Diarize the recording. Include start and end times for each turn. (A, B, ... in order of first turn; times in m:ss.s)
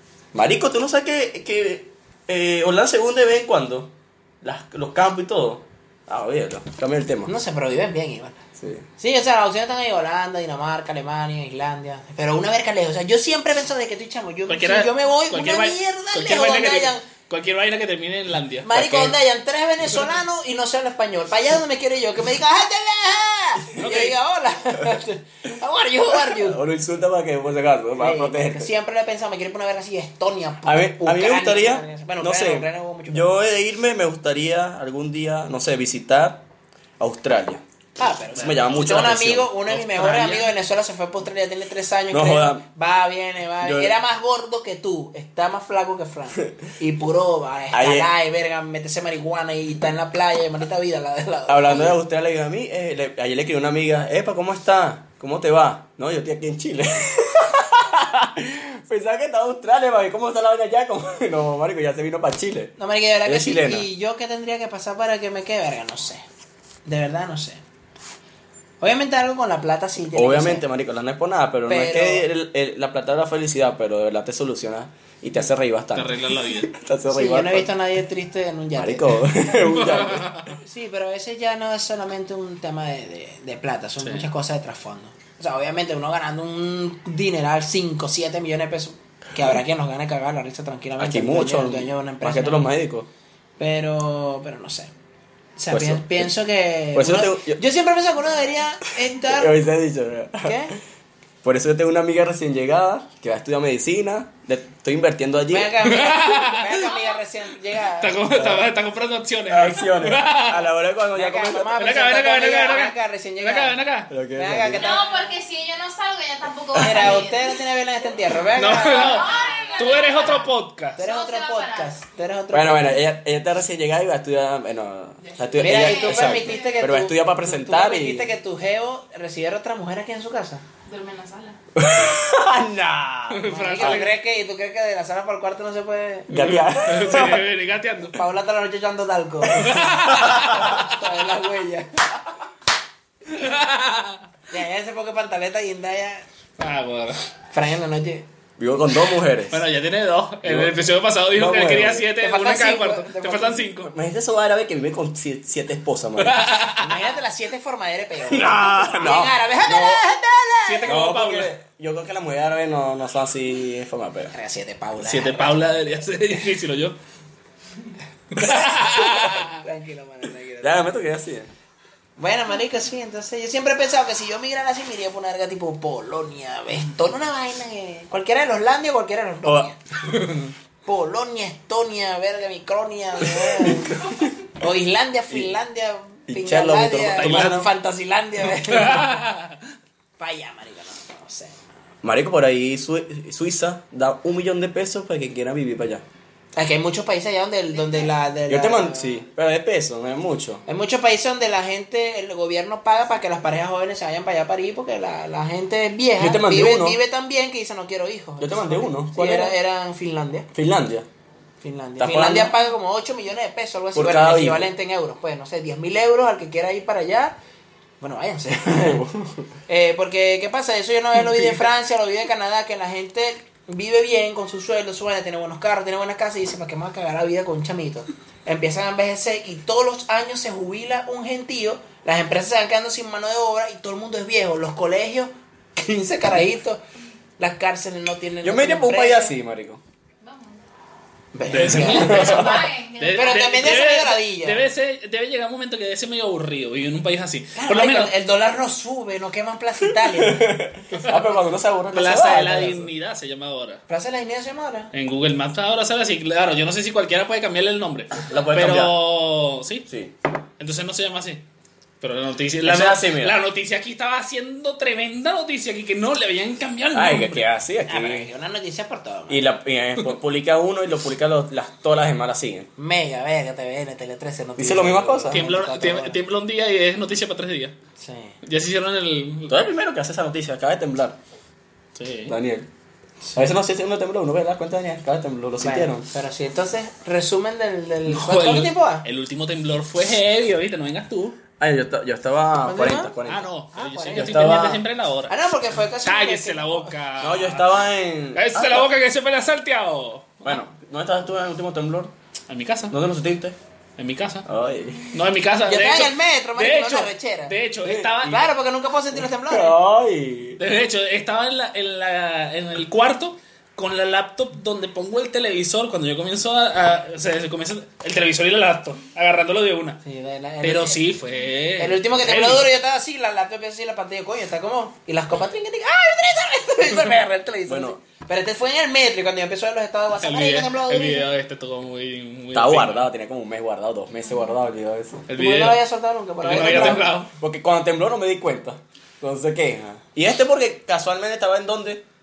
0:00.3-0:07.3 A
0:07.2-0:08.4 B
0:08.6-0:08.8 A
0:09.0-0:17.0 B
0:14.5-0:19.0 C
0:18.6-0:26.6 B
0:18.8-0:19.1 A
0:23.8-0:24.2 C
0:26.1-0:28.7 A
0:28.0-0:33.3 B
0:30.6-0:36.4 A
0:37.0-0:37.6 A
0:38.0-0:52.0 B
0:38.4-0:40.4 A
0:39.7-0:40.5 C
0:42.1-0:42.6 A
0:43.6-0:43.9 A
0:47.7-0:48.1 A
0:51.5-1:03.9 A
1:02.8-1:06.2 B
1:06.8-1:07.6 B
1:08.8-1:10.6 B
1:10.1-1:17.7 A
1:11.7-1:12.3 B
1:15.9-1:16.7 C
1:17.1-1:19.2 B
1:18.7-1:20.4 A
1:19.6-1:20.4 C
1:20.6-1:32.7 B
1:31.0-1:33.1 A
1:33.6-1:34.9 B
1:35.6-1:39.5 B
1:35.7-1:36.3 A
1:36.9-1:37.6 A
1:39.2-1:40.7 A
1:40.4-1:40.8 B
1:41.4-1:45.8 A
1:45.5-1:48.2 B
1:45.8-1:46.8 C
1:48.0-1:50.7 C
1:48.3-1:48.7 A
1:49.5-1:51.8 A
1:51.1-1:53.8 B
1:51.8-1:54.1 C
1:54.1-1:55.0 A
1:54.3-1:55.3 B
1:54.7-1:57.6 D
1:56.7-1:59.4 B
1:58.6-2:01.0 C
1:58.8-2:02.0 D
2:01.0-2:03.0 B
2:02.5-2:08.3 A
2:05.2-2:07.0 D
2:05.6-2:10.6 B
2:10.8-2:11.6 D
2:11.7-2:14.0 A
2:13.3-2:14.2 C
2:13.4-2:16.3 B
2:16.3-2:17.4 A
2:16.3-2:18.2 C
2:18.1-2:19.8 B
2:19.4-2:20.8 A
2:19.5-2:20.8 C
2:20.4-2:21.9 B
2:23.3-2:24.2 C
2:24.5-2:26.2 B
2:26.6-2:27.2 C
2:27.5-2:28.2 B
2:28.6-2:29.6 A
2:29.5-2:33.9 C
2:30.4-2:32.0 A
2:32.2-2:33.7 B
2:33.9-2:36.5 A
2:36.2-2:37.0 C
2:36.8-2:40.9 B
2:38.2-2:40.0 A
2:40.6-2:41.5 C
2:40.8-2:44.3 A
2:44.3-2:45.6 B
2:45.0-2:47.0 C
2:48.3-2:49.6 C
2:48.4-2:51.0 B
2:50.6-2:51.5 A
2:52.2-2:59.8 B
2:59.4-2:59.7 A
3:00.2-3:00.4 C
3:00.8-3:04.0 B
3:03.2-3:04.3 A
3:04.6-3:09.2 B
3:05.3-3:05.5 A
3:06.3-3:07.7 A
3:07.2-3:07.7 C
3:08.6-3:09.6 C
3:10.2-3:11.6 B
3:12.0-3:16.0 A
3:16.6-3:19.2 B
3:18.5-3:20.6 A
3:20.6-3:30.5 B
3:26.2-3:27.0 A
3:28.4-3:29.6 A
3:30.5-3:31.1 A
3:31.6-3:37.4 B
3:32.0-3:32.5 A
3:33.9-3:34.7 A
3:38.0-3:39.0 B
3:38.7-3:39.5 A
3:39.7-3:56.8 B
3:57.4-3:59.3 B
3:58.4-3:59.8 A
4:00.2-4:00.6 D
4:01.3-4:02.4 B
4:01.5-4:08.1 C
4:01.6-4:02.7 A
4:02.0-4:03.7 D
4:03.1-4:04.6 B
4:07.6-4:10.5 B
4:10.0-4:12.9 A
4:11.9-4:13.8 C
4:13.9-4:14.9 B
4:14.9-4:19.8 C
4:18.1-4:19.0 A
4:19.9-4:20.1 A
4:20.6-4:21.4 C
4:22.0-4:27.4 C
4:22.6-4:23.4 A
4:26.9-4:28.3 A
4:27.9-4:29.5 B
4:29.3-4:32.7 A
4:32.8-4:36.2 B
4:34.6-4:35.4 A
4:35.3-4:37.7 C
4:38.0-4:38.4 B
4:38.4-4:39.5 C
4:39.5-4:41.2 A
4:42.0-4:42.3 C
4:42.3-4:42.7 A
4:43.2-4:43.5 B
4:43.4-4:46.1 A
4:45.6-4:49.0 B
4:48.1-4:51.4 C
4:51.6-4:53.5 A
4:52.6-4:53.2 B
4:53.3-4:55.3 C
4:53.7-4:54.5 B
4:54.1-4:54.8 A
4:55.3-4:56.9 B
4:56.0-4:57.8 C
4:57.2-4:58.9 A
4:58.3-5:00.4 C
5:00.4-5:02.1 A
5:02.5-5:02.9 C
5:02.9-5:03.6 A
5:04.0-5:04.4 C
5:04.4-5:05.2 A
5:05.1-5:08.4 C
5:05.7-5:07.5 B
5:07.8-5:08.4 A
5:08.3-5:09.8 B
5:09.1-5:10.6 A
5:10.6-5:20.0 C
5:20.0-5:21.0 B
5:20.6-5:22.7 C
5:21.8-5:31.3 B
5:27.6-5:28.0 A
5:30.2-5:33.1 C
5:32.5-5:35.3 A
5:35.3-5:35.8 C
5:35.3-5:37.2 B
5:36.4-5:37.3 C
5:36.5-5:42.0 A